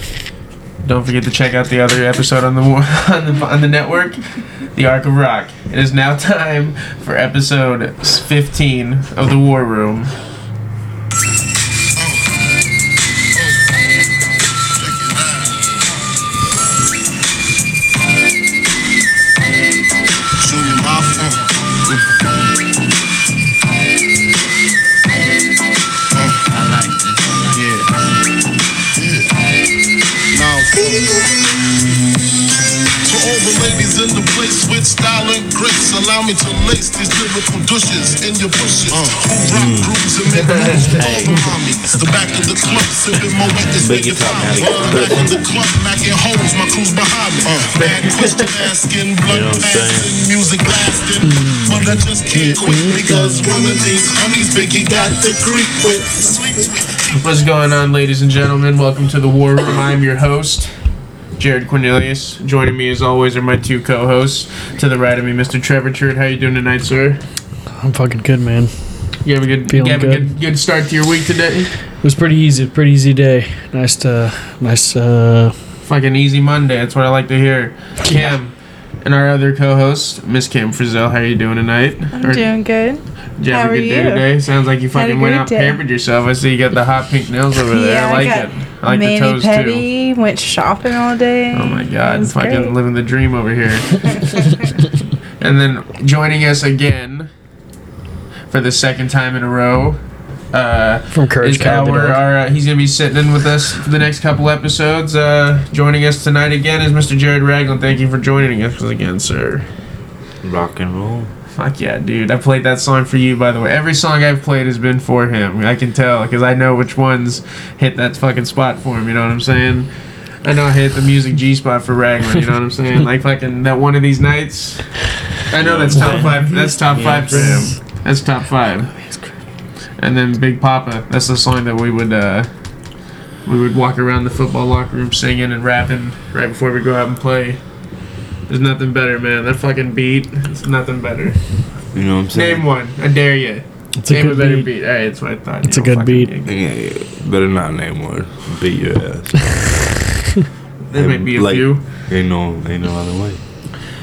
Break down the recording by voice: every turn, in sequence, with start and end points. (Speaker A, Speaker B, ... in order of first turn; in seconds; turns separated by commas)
Speaker A: 0.8-10.2, Speaker B: 12.0-12.3, Speaker B: 14.8-15.6, Speaker B: 20.4-22.0, Speaker B: 26.1-27.9, Speaker B: 28.9-29.3, Speaker B: 30.3-31.5, Speaker B: 33.0-56.9, Speaker C: 39.5-40.0, Speaker A: 40.5-40.8, Speaker C: 41.0-41.4, Speaker C: 43.8-45.5, Speaker C: 49.3-50.2, Speaker D: 51.2-53.6, Speaker A: 57.1-60.7, Speaker A: 61.4-67.2, Speaker D: 67.8-69.1, Speaker A: 69.2-71.7, Speaker D: 69.7-70.2, Speaker D: 72.0-75.5, Speaker A: 75.8-82.5, Speaker E: 82.1-84.3, Speaker A: 83.4-89.8, Speaker E: 84.9-85.8, Speaker E: 87.6-92.7, Speaker A: 91.5-94.7, Speaker A: 95.4-97.3, Speaker A: 98.5-100.0, Speaker A: 100.5-109.7, Speaker D: 101.1-102.2, Speaker C: 110.4-111.3, Speaker A: 111.5-119.9, Speaker A: 120.4-128.9, Speaker C: 125.6-127.7, Speaker D: 125.9-127.7, Speaker A: 130.0-132.5, Speaker A: 133.4-137.6, Speaker A: 138.5-141.4, Speaker C: 141.9-142.7, Speaker A: 142.3-146.5, Speaker D: 144.0-144.7, Speaker D: 145.6-146.3, Speaker C: 146.4-149.8, Speaker A: 150.9-151.8, Speaker C: 150.9-153.4